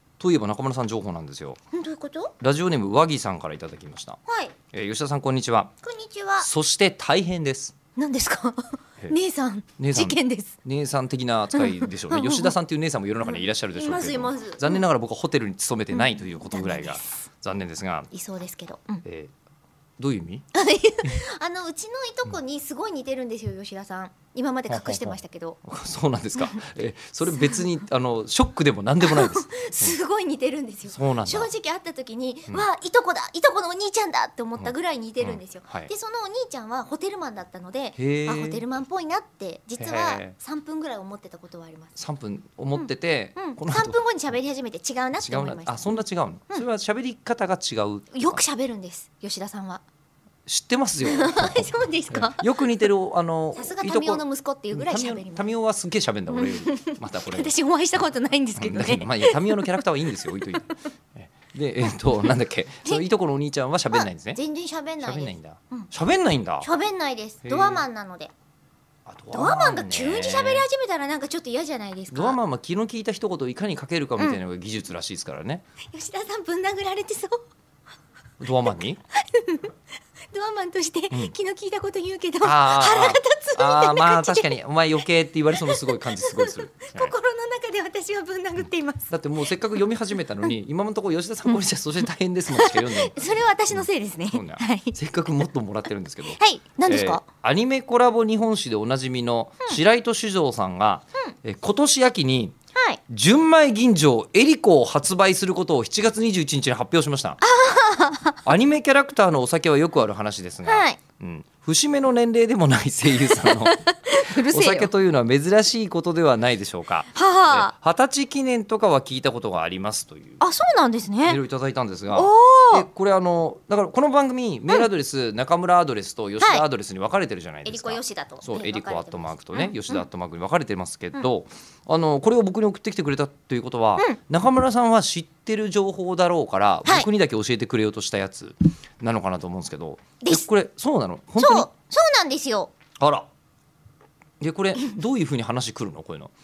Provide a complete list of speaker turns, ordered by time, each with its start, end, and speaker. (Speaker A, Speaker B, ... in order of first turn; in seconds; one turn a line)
Speaker A: 0.2-1.6
Speaker B: 1.7-2.4
Speaker A: 2.4-4.2
Speaker B: 4.3-4.5
Speaker A: 4.7-5.7
Speaker B: 5.8-6.5
Speaker A: 6.4-7.8
Speaker B: 8.0-10.5
Speaker A: 9.8-18.1
Speaker B: 11.6-12.5
Speaker B: 13.2-14.8
Speaker B: 15.9-17.2
Speaker B: 18.1-19.0
Speaker A: 19.1-19.3
Speaker A: 20.0-20.5
Speaker B: 20.5-25.6
Speaker A: 24.7-30.0
Speaker B: 27.3-27.7
Speaker B: 29.0-42.0
Speaker A: 30.9-31.5
Speaker A: 34.6-35.9
Speaker A: 38.0-38.6
Speaker A: 39.8-40.4
Speaker A: 42.0-44.0
Speaker B: 42.8-46.6
Speaker A: 45.2-48.4
Speaker B: 48.1-49.8
Speaker A: 50.5-57.5
Speaker B: 51.0-52.9
Speaker B: 53.5-55.5
Speaker B: 56.3-60.6
Speaker A: 58.6-64.4
Speaker B: 64.0-65.9
Speaker A: 65.0-66.7
Speaker B: 66.6-68.3
Speaker A: 67.4-67.8
Speaker A: 69.1-70.7
Speaker B: 69.3-72.4
Speaker A: 72.1-75.6
Speaker B: 75.9-77.4
Speaker A: 78.4-79.0
Speaker B: 79.1-79.7
Speaker B: 80.3-84.5
Speaker A: 82.4-87.1
Speaker B: 85.5-89.8
Speaker A: 89.1-102.5
Speaker B: 92.5-95.0
Speaker B: 96.3-97.2
Speaker B: 102.8-103.0
Speaker A: 103.1-107.4
Speaker B: 107.4-108.4
Speaker A: 108.5-120.4
Speaker B: 110.7-111.0
Speaker B: 113.2-114.9
Speaker B: 117.1-117.7
Speaker B: 120.4-121.4
Speaker A: 121.3-141.7
Speaker B: 122.1-122.9
Speaker B: 127.7-130.1
Speaker B: 141.4-142.7
Speaker A: 143.0-143.3
Speaker A: 144.4-146.3